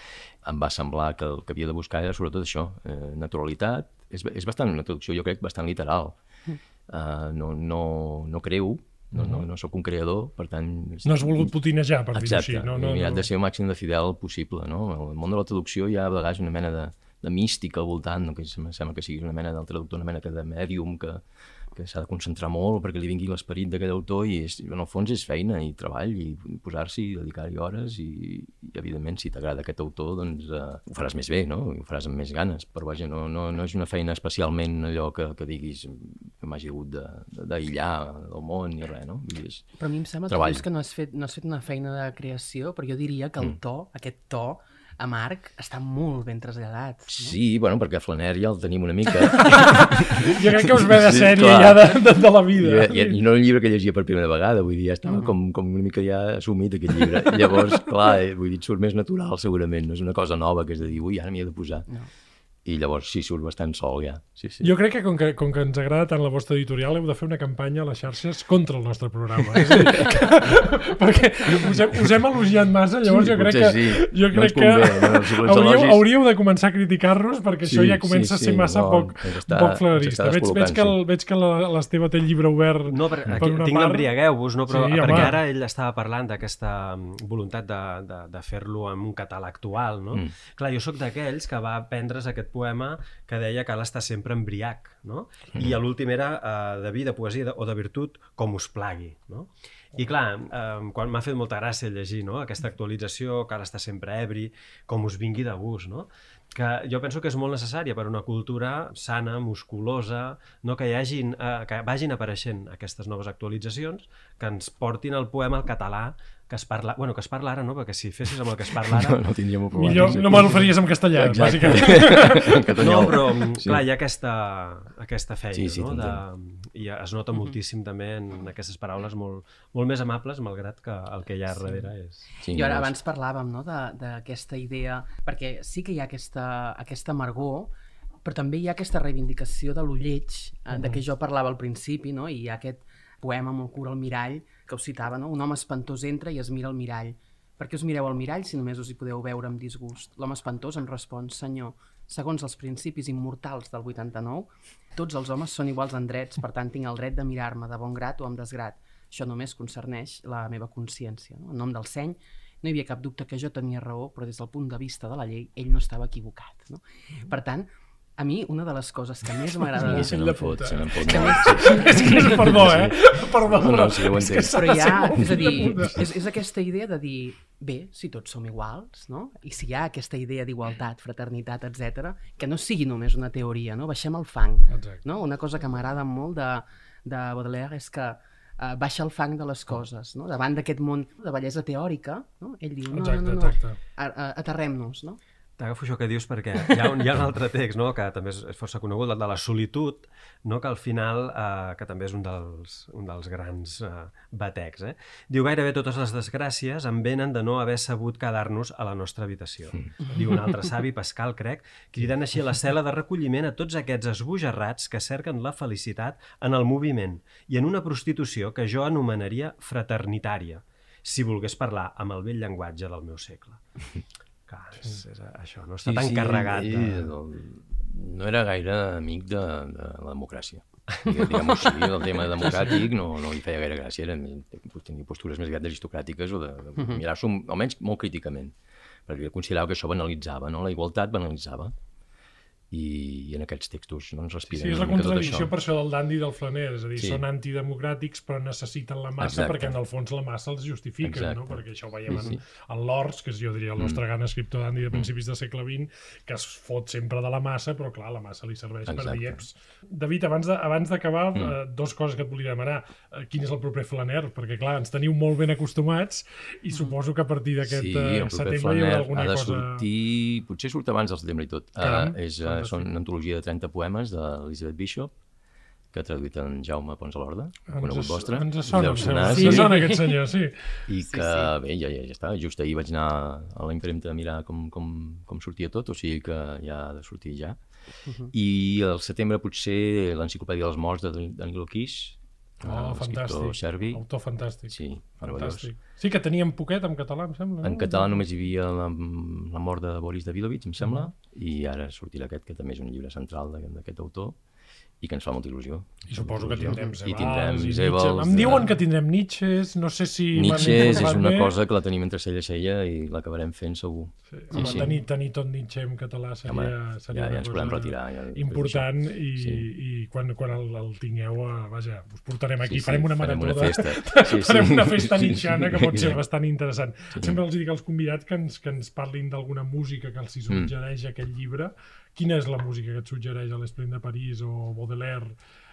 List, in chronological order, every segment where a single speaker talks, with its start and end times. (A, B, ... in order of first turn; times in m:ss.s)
0:00.4-0:06.2 A
0:06.9-0:11.5 A
0:09.1-0:09.4 B
0:11.0-0:13.3 B
0:12.1-0:39.7 A
0:39.8-0:47.4 C
0:40.3-0:40.6 A
0:47.1-1:01.9 A
0:49.4-0:53.2 B
0:55.1-0:55.4 C
1:02.6-1:04.7 A
1:04.6-1:24.1 B
1:09.6-1:10.2 A
1:13.0-1:16.0 A
1:17.6-1:21.0 A
1:22.9-1:59.2 D
1:24.7-1:25.4 B
1:25.1-1:25.4 A
1:35.6-1:35.8 A
1:58.8-2:03.8 A
1:59.8-2:02.7 B
2:02.8-2:12.3 D
2:05.5-2:06.2 A
2:12.4-2:12.9 A
2:12.5-2:17.7 C
2:18.2-2:50.2 C
2:49.8-2:56.1 B
2:49.8-2:55.3 A
2:51.0-2:52.4 C
2:54.5-3:15.2 C
3:04.7-3:05.0 B
3:12.9-3:13.8 B
3:15.6-3:43.6 D
3:44.5-3:47.1 D
3:45.8-3:58.6 A
3:56.8-3:57.0 C
3:59.1-4:01.7 A
4:02.7-4:05.5 A
4:04.5-4:29.9 B
4:07.0-4:07.2 A
4:09.2-4:09.8 A
4:11.0-4:12.4 A
4:18.9-4:19.4 A
4:27.6-4:35.1 A
4:31.8-4:32.9 B
4:35.9-4:39.8 A
4:37.7-4:40.8 B
4:39.3-4:40.2 C
4:40.9-4:47.6 A
4:41.0-4:41.5 C
4:48.3-4:54.0 A
4:52.6-4:58.2 B
4:54.7-4:55.7 A
4:57.6-5:04.4 A
5:00.8-5:01.1 B
5:05.0-5:08.7 A
5:06.1-5:11.6 B
5:10.3-5:15.0 A
5:14.3-5:35.3 B
5:14.5-5:14.9 C
5:16.5-5:19.7 A
5:22.6-5:26.2 A
5:27.2-5:27.4 A